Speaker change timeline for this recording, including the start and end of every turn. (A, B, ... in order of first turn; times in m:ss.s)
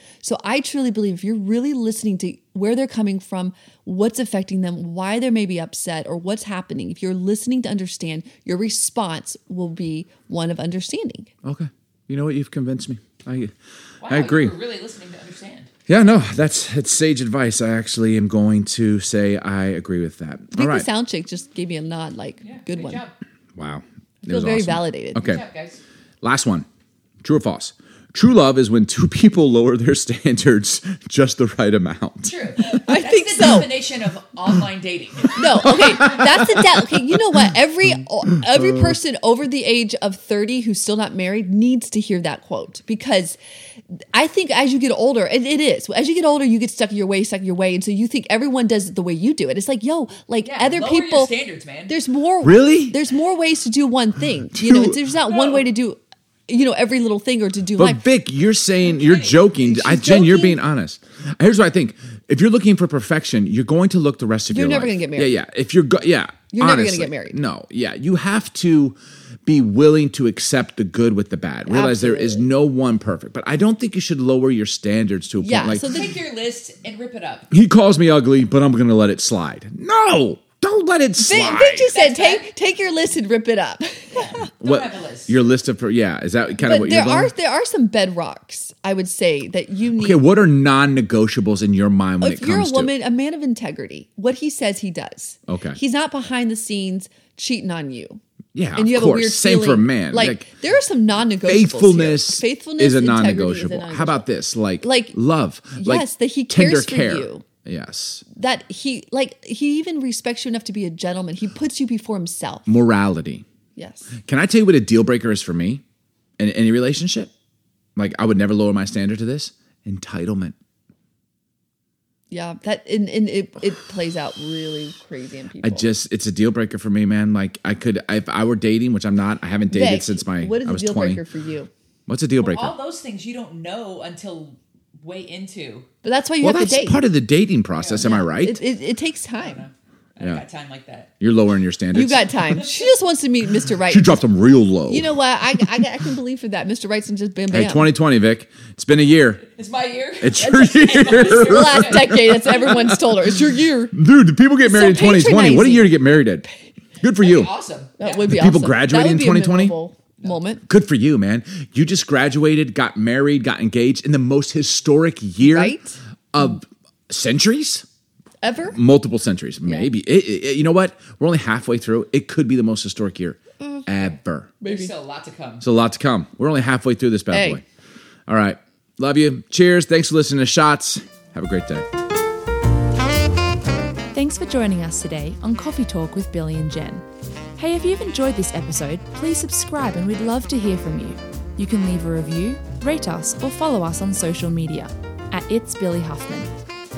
0:00.2-0:11.3 A
0:11.4-0:13.5 B
0:14.0-0:15.7 C
0:14.0-0:14.6 B
0:15.9-0:20.9 B
0:20.5-0:23.0 A
0:22.4-0:23.1 C
0:23.6-0:25.4 B
0:24.2-0:25.3 A
0:25.2-0:25.8 C
0:26.2-0:26.6 B
0:27.2-0:32.8 B
0:32.2-0:36.0 C
0:32.6-0:33.9 A
0:35.4-0:43.4 A
0:35.5-0:37.5 B
0:38.5-0:38.9 B
0:44.1-0:51.4 A
0:50.4-0:51.9 C
0:51.9-0:58.0 A
0:52.4-0:53.0 B
0:54.5-0:54.9 B
0:57.8-1:16.1 B
0:58.9-0:59.5 C
0:59.6-1:00.6 A
1:04.5-1:05.4 A
1:06.5-1:07.4 A
1:11.6-1:12.5 A
1:15.4-1:16.1 A
1:15.8-1:17.4 C
1:17.5-1:21.9 B
1:21.2-1:24.5 A
1:21.9-1:22.5 C
1:24.1-1:25.3 C
1:24.6-1:27.3 B
1:26.6-1:30.2 A
1:29.9-1:32.9 B
1:32.2-1:38.2 A
1:35.5-1:35.8 B
1:38.5-1:40.5 B
1:38.8-1:44.2 A
1:41.4-1:48.2 B
1:44.8-1:45.2 A
1:45.8-1:47.4 A
1:48.3-1:52.8 A
1:52.7-1:53.4 B
1:53.8-1:54.1 A
1:54.2-1:55.8 B
1:56.4-1:57.3 B
1:58.0-2:00.5 B
2:02.3-2:05.9 A
2:05.6-2:11.2 B
2:09.7-2:11.7 A
2:12.1-2:12.8 B
2:12.4-2:15.9 C
2:16.0-2:17.0 A
2:16.4-2:18.6 B
2:17.8-2:18.2 C
2:18.0-2:19.7 A
2:19.4-2:21.1 C
2:20.2-2:20.4 B
2:21.2-2:22.4 B
2:21.9-2:24.2 A
2:23.9-2:25.1 B
2:24.9-2:27.9 A
2:27.5-2:29.5 B
2:29.5-2:32.1 C
2:30.2-2:33.2 B
2:30.3-2:33.9 A
2:33.9-2:36.5 B
2:34.6-2:36.0 A
2:37.0-2:37.5 B
2:37.2-2:38.3 C
2:38.0-2:40.6 A
2:38.2-2:39.8 B
2:40.6-2:45.8 B
2:45.4-2:46.0 A
2:46.3-2:47.9 B
2:48.4-2:48.8 A
2:48.7-2:54.6 B
2:49.6-2:49.9 A
2:53.6-2:54.9 A
2:54.6-2:55.6 C
2:55.6-2:57.6 B
2:57.3-2:57.6 A
2:58.3-3:01.8 B
3:04.1-3:07.0 D
3:07.6-3:16.5 D